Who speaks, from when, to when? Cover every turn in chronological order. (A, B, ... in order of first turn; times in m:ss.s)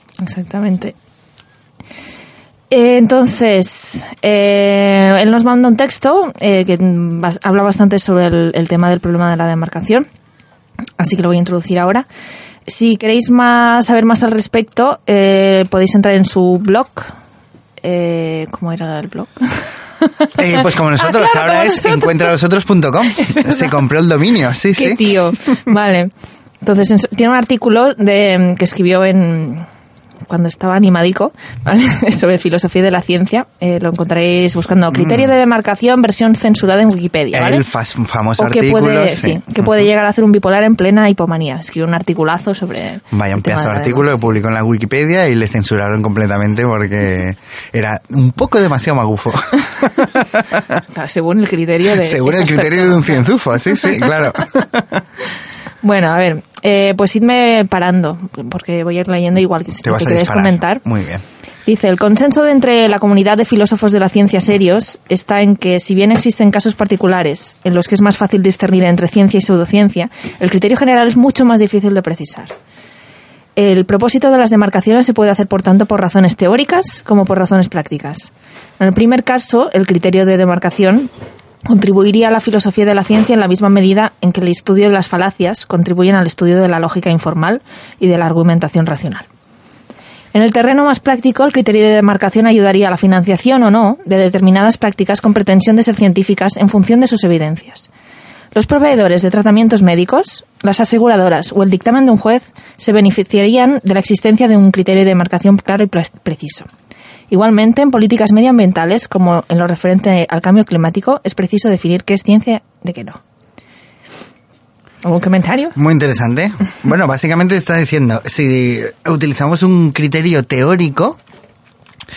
0:00.2-0:01.0 A
0:02.7-0:10.1 A
0:11.0-0:12.1 A
0:12.7-0:17.2 A
0:17.8-0:22.3 A
0:20.4-0:25.4 B
0:23.1-0:23.8 A
0:24.8-0:26.1 A
0:26.6-0:29.7 A
0:30.3-0:37.6 A
0:34.9-0:35.3 B
0:37.3-0:39.7 B
0:38.4-0:44.3 A
0:43.1-0:50.5 B
0:50.9-0:54.6 A
0:52.0-0:54.9 B
0:55.8-1:00.8 A
0:59.8-1:01.2 B
1:01.7-1:12.5 A
1:13.6-1:21.1 A
1:21.7-1:29.3 A
1:30.3-1:37.9 A
1:38.5-1:46.7 A
1:47.3-1:53.2 A
1:55.0-1:55.8 A
1:55.8-2:01.2 B